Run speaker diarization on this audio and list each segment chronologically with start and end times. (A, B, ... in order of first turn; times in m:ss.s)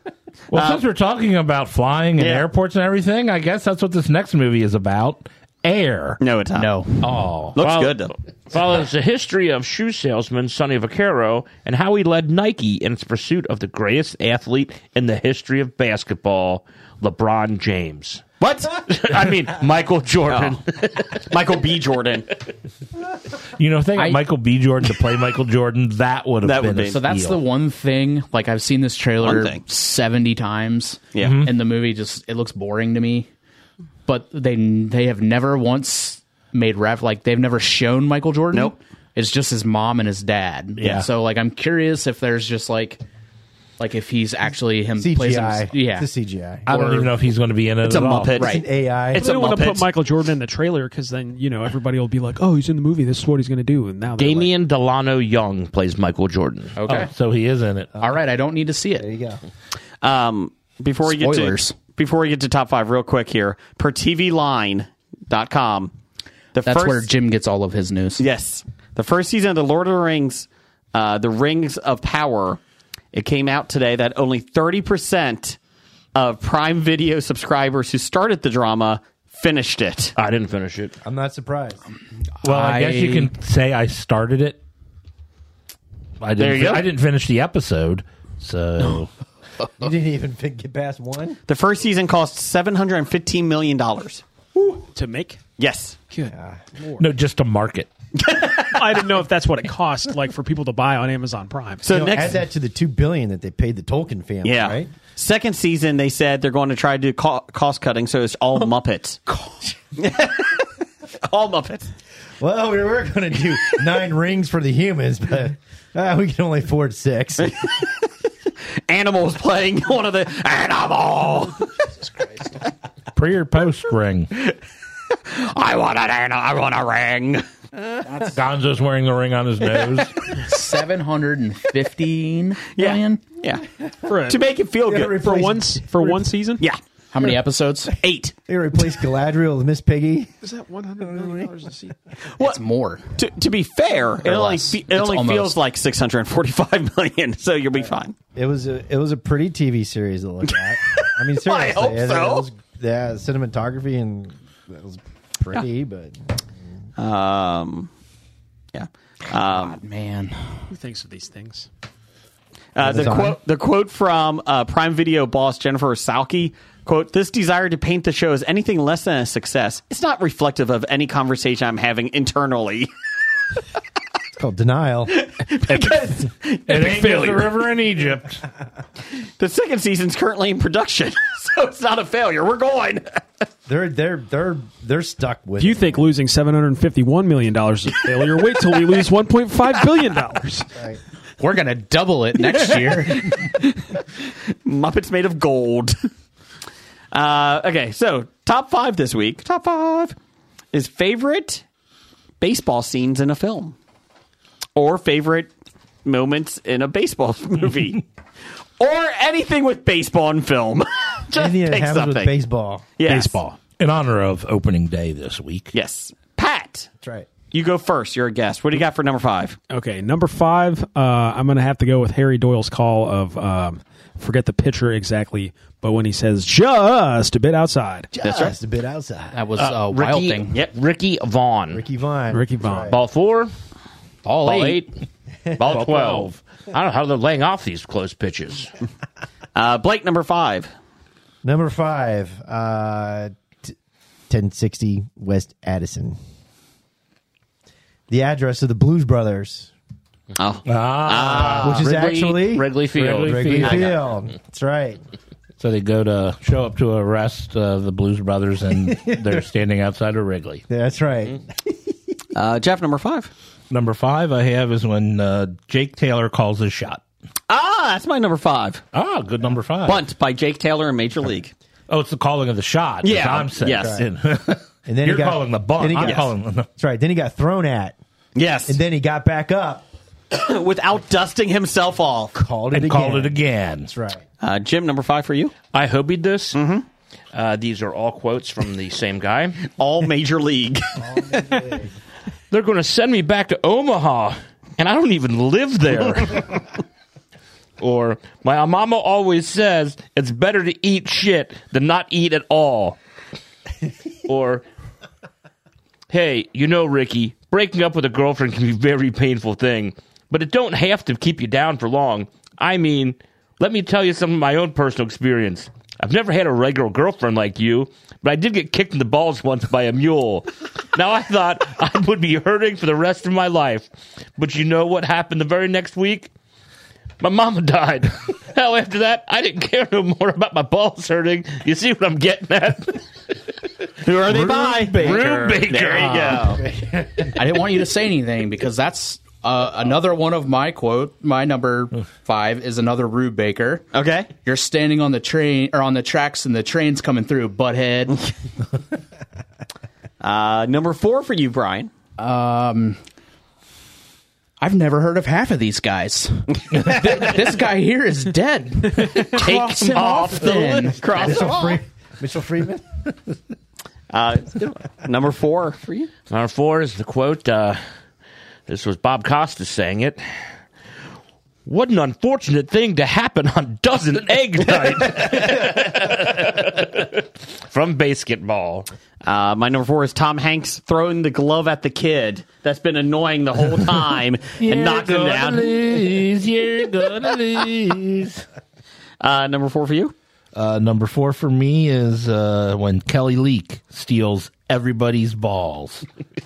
0:00.5-0:06.2 A
0:00.5-0:00.8 B
0:02.2-0:02.5 B
0:06.2-0:06.8 B
0:06.5-0:07.5 C
0:07.6-0:08.1 B
0:07.6-0:18.2 D
0:18.4-0:18.8 B
0:18.8-0:21.2 D
0:20.3-0:20.6 B
0:21.1-0:22.4 B
0:23.6-0:27.4 A
0:24.0-0:24.2 C
0:26.4-0:27.0 B
0:26.9-0:33.3 C
0:29.2-0:29.6 B
0:31.1-0:31.5 B
0:31.2-0:31.5 A
0:34.1-0:43.0 C
0:40.8-0:41.1 A
0:43.8-0:46.1 C
0:45.0-0:46.8 E
0:46.7-0:48.4 A
0:46.7-0:47.2 C
0:47.8-0:49.9 B
0:48.4-0:48.6 C
0:48.4-0:49.3 E
0:49.1-0:54.5 F
0:54.2-0:56.8 D
0:56.8-0:57.1 C
0:56.9-0:57.9 A
0:58.0-0:59.1 C
0:59.0-0:59.4 E
1:00.0-1:05.9 B
1:01.0-1:01.8 C
1:06.6-1:07.1 B
1:06.6-1:08.2 C
1:08.2-1:12.6 B
1:13.1-1:15.6 B
1:16.2-1:20.2 B
1:20.2-1:21.0 D
1:21.0-1:21.8 E
1:22.4-1:23.3 C
1:22.4-1:24.6 A
1:26.2-1:29.1 A
1:26.4-1:26.8 B
1:29.8-1:31.4 E
1:31.5-1:34.2 B
1:34.6-1:35.4 F
1:35.6-1:36.0 B
1:36.1-1:37.1 F
1:36.3-1:36.6 E
1:37.0-1:37.9 A
1:38.2-1:39.0 B
1:38.7-1:41.8 F
1:41.8-1:42.4 B
1:41.8-1:44.9 E
1:44.4-1:49.2 B
1:50.0-1:50.7 B
1:51.2-1:51.9 B
1:52.4-1:57.6 E
1:57.4-1:57.9 B
1:58.9-2:01.7 B
2:02.1-2:02.5 C
2:03.2-2:04.3 A
2:05.2-2:07.5 B
2:08.1-2:08.4 C
2:08.3-2:10.4 A
2:10.3-2:13.2 C
2:12.8-2:13.7 B
2:14.0-2:14.4 F
2:14.2-2:15.4 B
2:14.8-2:16.3 E
2:15.0-2:16.6 F
2:17.1-2:18.0 C
2:18.0-2:18.3 B
2:18.5-2:20.3 E
2:20.4-2:22.0 F
2:21.0-2:21.5 E
2:22.4-2:23.1 C
2:23.2-2:28.2 B
2:24.2-2:25.6 C
2:28.4-2:36.2 E
2:31.0-2:32.5 B
2:37.0-2:37.9 B
2:38.7-2:39.8 B
2:39.4-2:40.4 C
2:40.7-2:41.7 F
2:42.8-2:52.9 B
2:42.8-2:43.4 E
2:54.4-2:55.2 E
2:55.1-2:57.6 B
2:56.7-2:58.4 A
2:59.4-3:03.2 B
3:03.7-3:06.1 E
3:05.6-3:10.7 F
3:11.4-3:13.3 C
3:13.0-3:13.6 B
3:14.6-3:16.1 B
3:17.1-3:20.2 B
3:20.7-3:21.6 B
3:22.4-3:23.8 B
3:24.8-3:25.5 B
3:26.0-3:28.0 B
3:28.8-3:32.3 B
3:31.3-3:32.9 E
3:33.0-3:33.4 B
3:33.1-3:33.6 F
3:33.8-3:35.7 A
3:35.7-3:36.9 B
3:37.0-3:37.3 E
3:37.5-3:39.6 B
3:39.7-3:48.1 F
3:48.1-3:49.4 E
3:48.2-3:48.6 B
3:49.3-3:50.6 C
3:49.6-3:51.8 D
3:51.7-3:53.0 E
3:52.3-3:52.9 F
3:52.9-3:53.5 D
3:54.2-3:54.9 C
3:54.4-3:54.9 D
3:55.6-3:58.7 D
3:55.7-3:56.2 A
3:59.6-4:00.7 B
4:01.4-4:03.7 E
4:04.3-4:06.2 E
4:08.1-4:09.7 E
4:10.4-4:11.8 B
4:10.7-4:11.8 A
4:11.5-4:15.0 E
4:11.6-4:13.6 D
4:13.0-4:14.0 A
4:13.6-4:14.0 B
4:15.6-4:20.6 A
4:18.8-4:19.4 E
4:20.7-4:21.8 E
4:22.3-4:23.3 B
4:23.7-4:27.0 A
4:27.5-4:28.8 B
4:28.9-4:30.0 A
4:29.8-4:31.5 B
4:31.9-4:36.7 A
4:33.0-4:34.0 B
4:33.6-4:34.0 E
4:34.9-4:38.0 E
4:36.0-4:36.3 B
4:38.4-4:38.8 B
4:38.7-4:39.8 E
4:40.3-4:42.4 B
4:42.3-4:44.2 E
4:42.7-4:43.9 A
4:44.4-4:45.5 B
4:45.7-4:46.6 D
4:46.6-4:46.8 B
4:47.3-4:49.6 D
4:49.7-4:51.6 B
4:51.0-4:51.9 E
4:52.5-4:56.7 D
4:57.8-5:03.0 D
5:04.3-5:04.6 D
5:06.1-5:26.3 D
5:27.2-5:33.0 D
5:34.0-5:36.6 B
5:34.3-5:36.6 A
5:34.6-5:34.9 E
5:35.0-5:36.2 D
5:36.6-5:37.4 E
5:37.4-5:43.9 C
5:43.9-5:44.3 B
5:44.4-5:48.2 C
5:50.2-5:51.9 B
5:52.2-5:53.0 C
5:54.6-6:01.0 C
5:59.3-6:01.8 B
5:59.3-6:00.8 D
6:01.1-6:02.9 E
6:04.1-6:06.1 B
6:06.3-6:07.8 D
6:08.7-6:10.2 D
6:11.7-6:18.9 D
6:19.2-6:26.0 B
6:24.6-6:28.4 A
6:29.2-6:30.1 B
6:30.6-6:36.1 A